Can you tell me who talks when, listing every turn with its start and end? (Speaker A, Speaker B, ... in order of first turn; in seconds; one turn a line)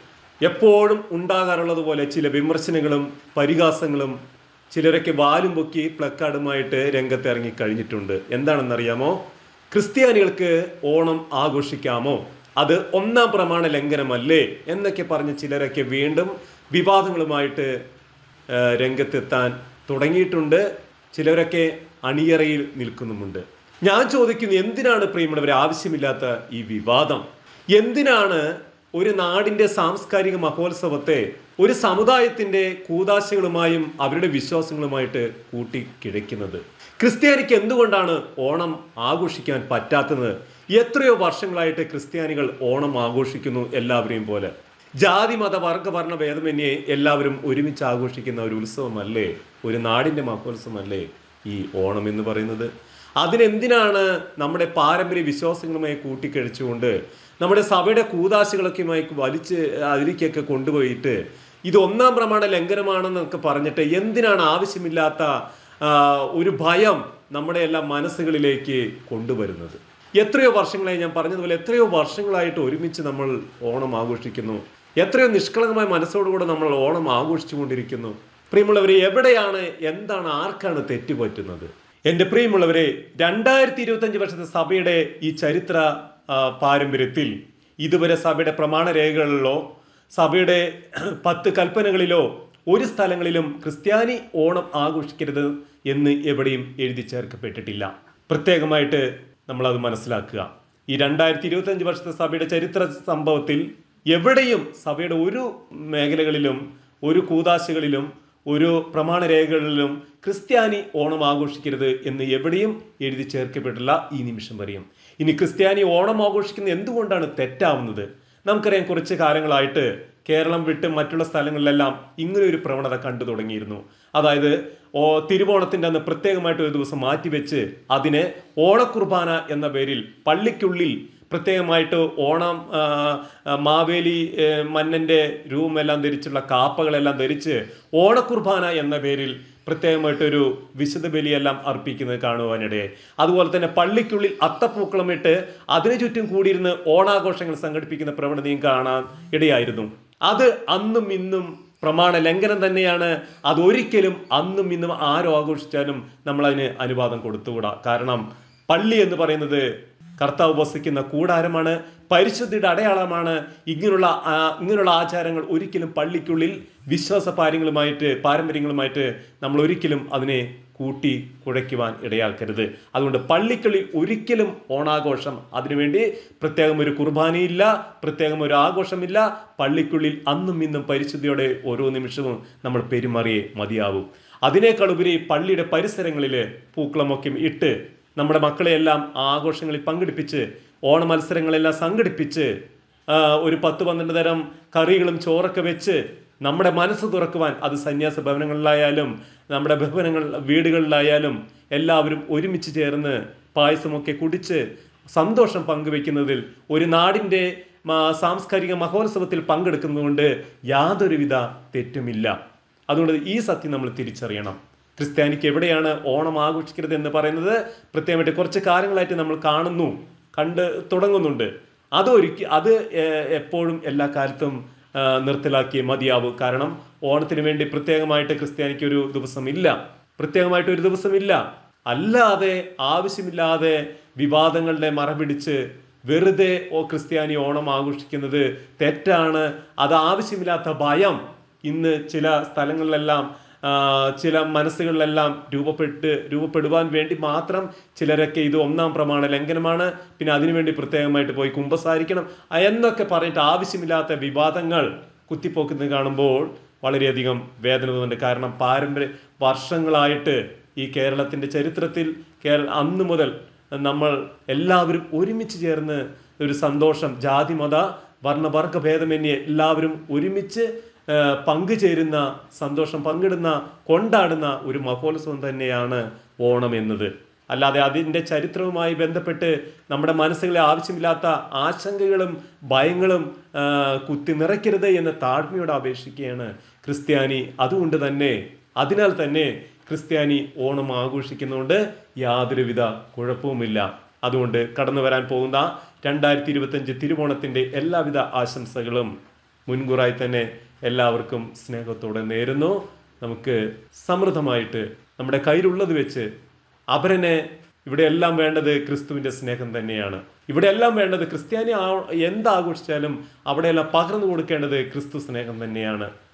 Speaker A: 0.4-4.2
Speaker A: 4.7-17.7
Speaker A: 18.5-192.5
Speaker A: 193.1-212.3
Speaker A: 212.9-299.1
Speaker A: 299.7-306.3
Speaker A: 306.9-316.1